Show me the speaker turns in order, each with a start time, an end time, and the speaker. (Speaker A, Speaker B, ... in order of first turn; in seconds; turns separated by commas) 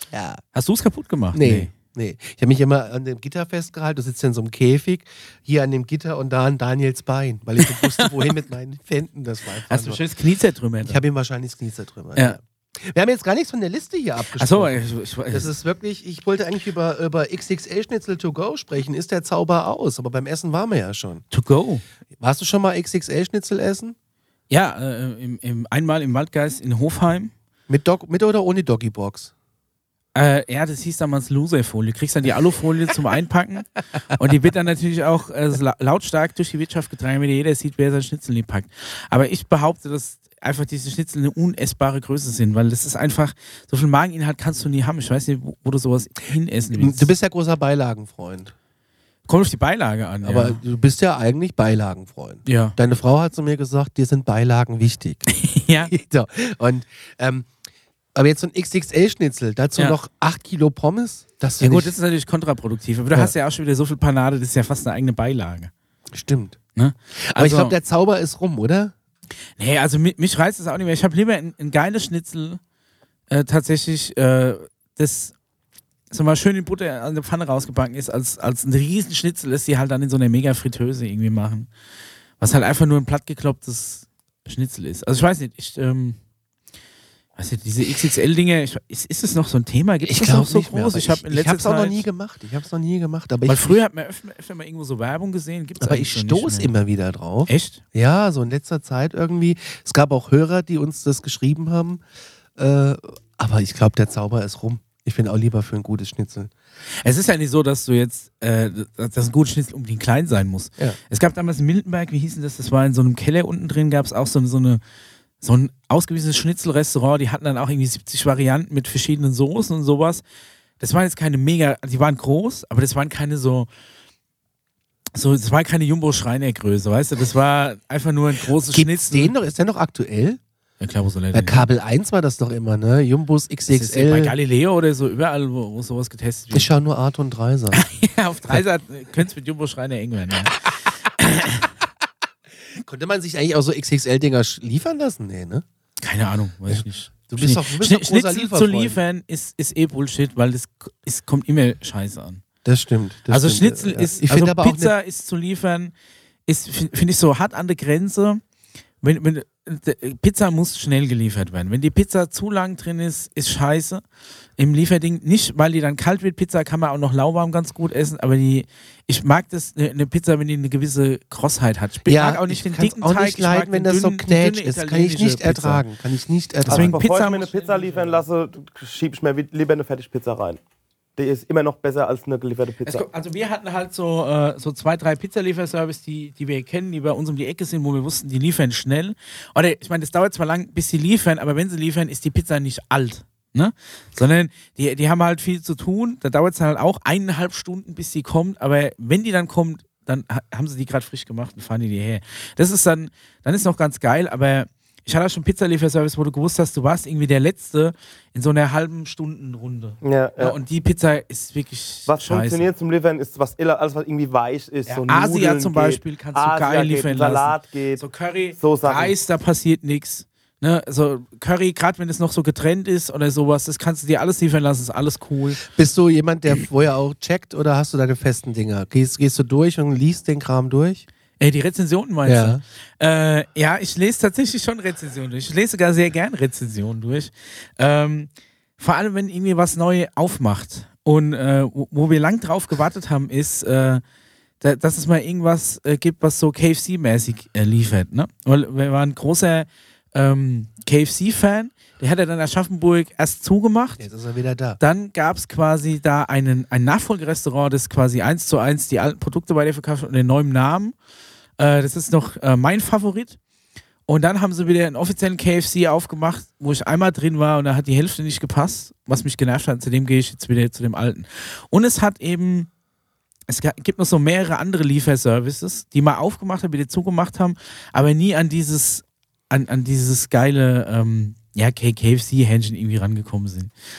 Speaker A: 0.1-0.4, Speaker B: 0.5-1.7, Speaker A: 1.3-10.0, Speaker B: 9.7-11.0, Speaker A: 10.8-14.8, Speaker B: 14.4-15.5, Speaker A: 15.3-21.2, Speaker B: 21.3-21.8, Speaker A: 22.2-23.9, Speaker B: 24.5-27.3, Speaker A: 27.7-29.3, Speaker B: 30.1-47.1, Speaker A: 46.7-48.5, Speaker B: 49.3-50.6, Speaker A: 50.2-55.3, Speaker B: 52.5-52.8, Speaker B: 55.3-55.9, Speaker A: 55.9-57.5, Speaker A: 58.1-61.9, Speaker B: 61.6-65.7, Speaker A: 66.1-66.6, Speaker B: 66.7-67.8, Speaker A: 67.2-68.9, Speaker B: 69.6-72.6, Speaker B: 73.3-75.3, Speaker B: 76.1-81.7, Speaker B: 82.4-86.2, Speaker B: 87.4-92.0, Speaker A: 90.0-93.8, Speaker B: 93.4-96.7, Speaker A: 95.8-102.0, Speaker B: 97.5-97.8, Speaker A: 102.6-106.5, Speaker B: 107.0-114.8, Speaker B: 115.4-120.2, Speaker B: 120.8-123.7, Speaker B: 125.1-129.3, Speaker A: 128.7-130.4, Speaker B: 130.8-131.7, Speaker A: 131.3-134.3, Speaker B: 133.7-136.7, Speaker A: 136.5-137.8, Speaker B: 137.7-140.6, Speaker B: 141.2-141.7, Speaker A: 142.7-145.6, Speaker B: 146.0-152.4, Speaker A: 146.7-149.0, Speaker A: 152.6-154.9, Speaker B: 153.3-155.9, Speaker B: 156.5-158.4, Speaker B: 159.0-164.0, Speaker B: 164.6-175.8, Speaker A: 172.1-177.0, Speaker B: 176.7-178.2, Speaker C: 176.7-180.6, Speaker C: 181.2-183.1, Speaker B: 182.8-212.7, Speaker C: 210.0-210.6, Speaker C: 212.1-218.0, Speaker B: 214.9-225.6, Speaker C: 218.6-219.1, Speaker A: 225.6-231.0, Speaker B: 231.4-244.0, Speaker A: 232.2-232.6, Speaker B: 244.6-254.0, Speaker A: 254.0-254.8, Speaker B: 254.8-260.9, Speaker B: 261.6-263.4, Speaker B: 264.1-272.7, Speaker B: 273.5-283.7